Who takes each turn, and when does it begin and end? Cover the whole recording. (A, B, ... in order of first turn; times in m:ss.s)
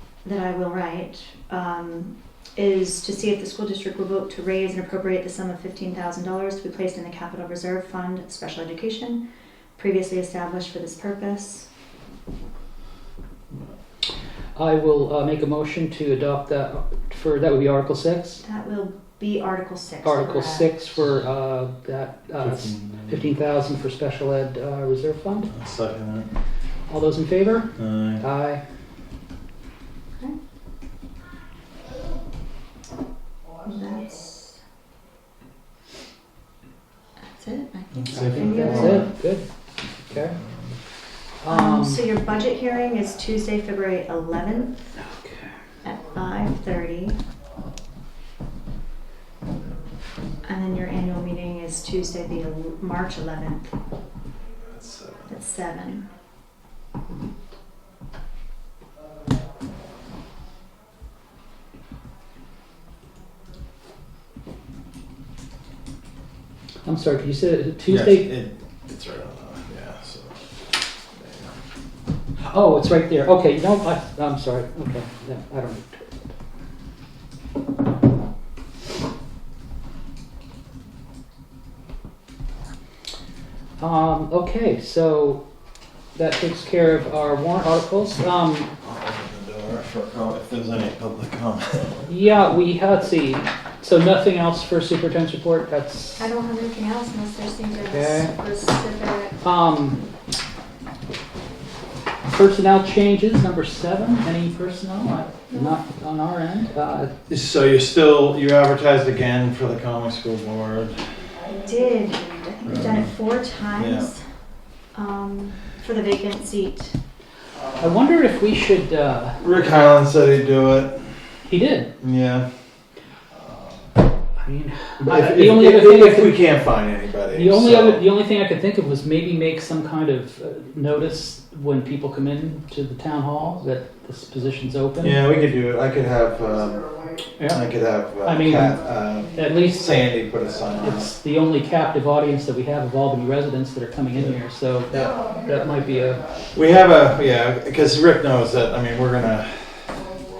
0:00.2-0:09.2 A
0:09.8-0:11.7 A
0:14.6-0:18.4 B
0:18.4-0:20.7 A
0:20.0-0:25.5 B
0:22.4-0:23.2 C
0:25.5-0:26.3 C
0:26.9-0:28.6 B
0:27.8-0:28.2 C
0:33.6-0:34.6 A
0:37.3-0:39.1 A
0:37.9-0:39.1 C
0:38.1-0:40.4 B
0:41.4-0:42.1 B
0:41.5-0:44.9 A
0:45.0-0:45.5 B
0:45.8-0:47.2 A
0:50.4-0:53.7 A
0:54.7-0:55.3 C
0:55.3-0:56.1 A
1:06.8-1:08.3 B
1:07.9-1:11.6 C
1:12.4-1:16.3 B
1:23.8-1:25.4 B
1:26.1-1:28.7 B
1:28.8-1:32.0 C
1:32.0-1:36.2 B
1:36.2-1:39.4 A
1:37.9-1:38.3 B
1:39.4-1:40.0 B
1:42.3-1:47.1 B
1:45.5-1:45.8 A
1:47.3-1:51.0 C
1:51.6-1:54.2 A
1:53.8-1:54.1 C
1:54.9-1:57.0 A
1:57.8-1:59.4 B
1:59.4-2:01.1 C
2:01.4-2:01.9 B
2:02.0-2:02.5 C
2:04.4-2:06.4 B
2:05.0-2:08.0 C
2:07.3-2:15.2 B
2:15.0-2:16.9 C
2:17.5-2:21.1 C
2:18.2-2:18.8 B
2:19.3-2:20.1 B
2:20.8-2:26.3 B
2:24.9-2:25.2 C
2:26.5-2:29.9 C